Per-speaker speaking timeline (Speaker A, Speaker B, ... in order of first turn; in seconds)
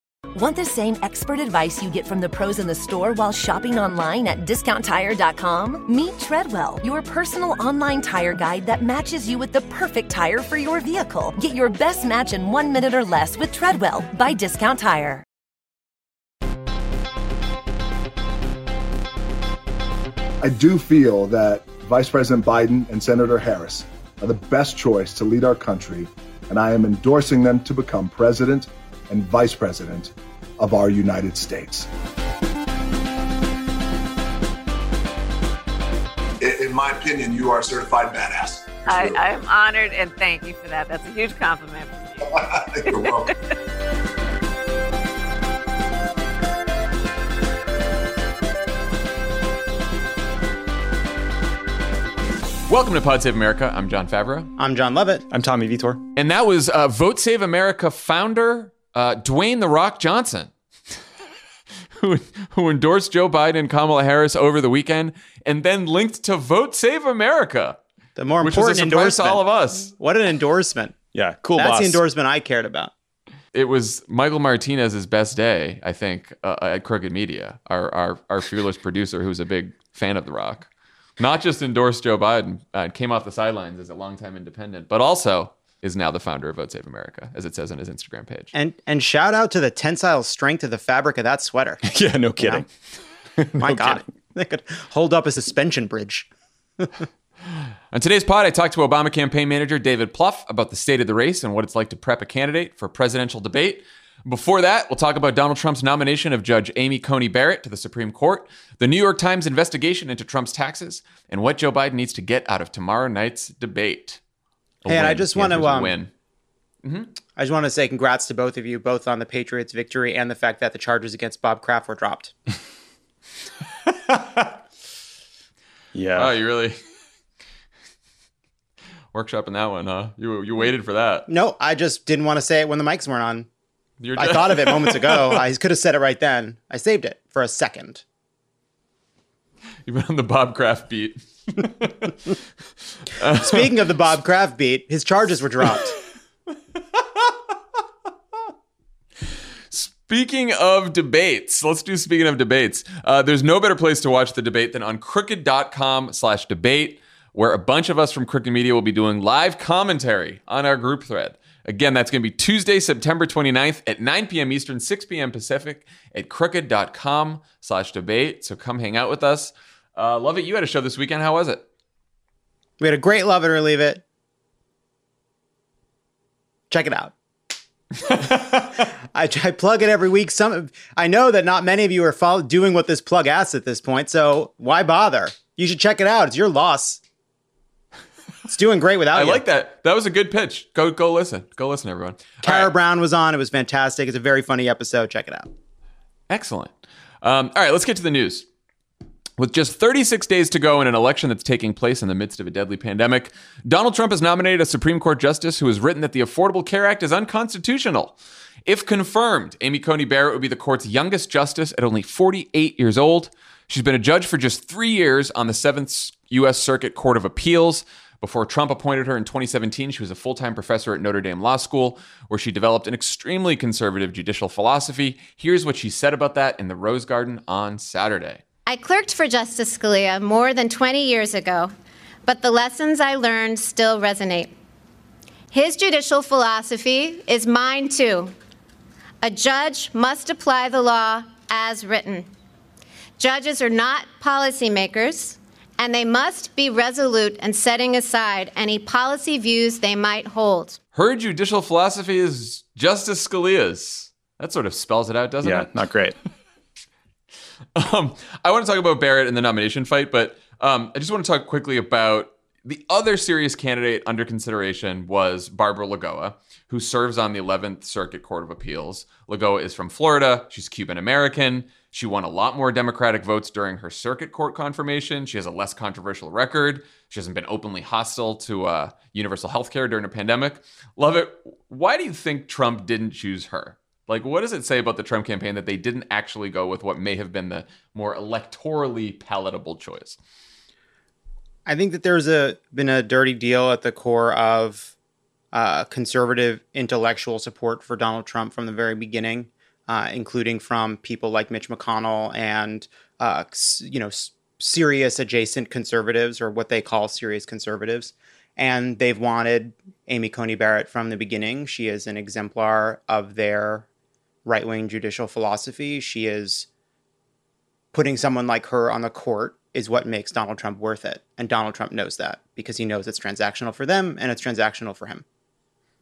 Speaker A: 0.3-15.2
Speaker B: 20.4-31.9
Speaker C: 36.4-39.2, 42.3-43.3
Speaker D: 38.9-42.2, 42.9-43.3
Speaker E: 52.7-54.5, 56.1-60.5, 62.0-67.8, 68.4-69.9, 73.5-80.7, 81.2-88.5, 97.9-114.2, 114.8-116.1, 116.8-117.1, 126.2-126.8, 129.1-131.3, 134.0-135.4, 139.8-142.2, 143.1-143.7, 149.7-171.6, 189.1-192.7, 196.3-198.5, 199.4-228.4, 250.9-255.7, 257.7-290.2
Speaker F: 54.6-55.3, 68.2-71.0, 71.5-72.9, 88.5-91.8, 92.4-92.6, 93.6-96.3, 114.9-115.9, 117.4-122.3, 131.3-133.5, 134.2-138.0, 143.2-146.0, 172.8-174.0, 176.7-177.1, 178.5-187.0, 188.5-189.4, 192.4-195.5, 291.6-294.9, 295.5-313.9, 314.4-316.7, 317.9-325.2
Speaker G: 55.3-56.0, 71.1-72.0, 91.8-92.7, 93.4-94.0, 125.9-126.3, 255.4-256.1
Speaker H: 228.7-231.7, 232.2-234.5, 235.5-238.3, 239.2-242.3, 243.2-250.8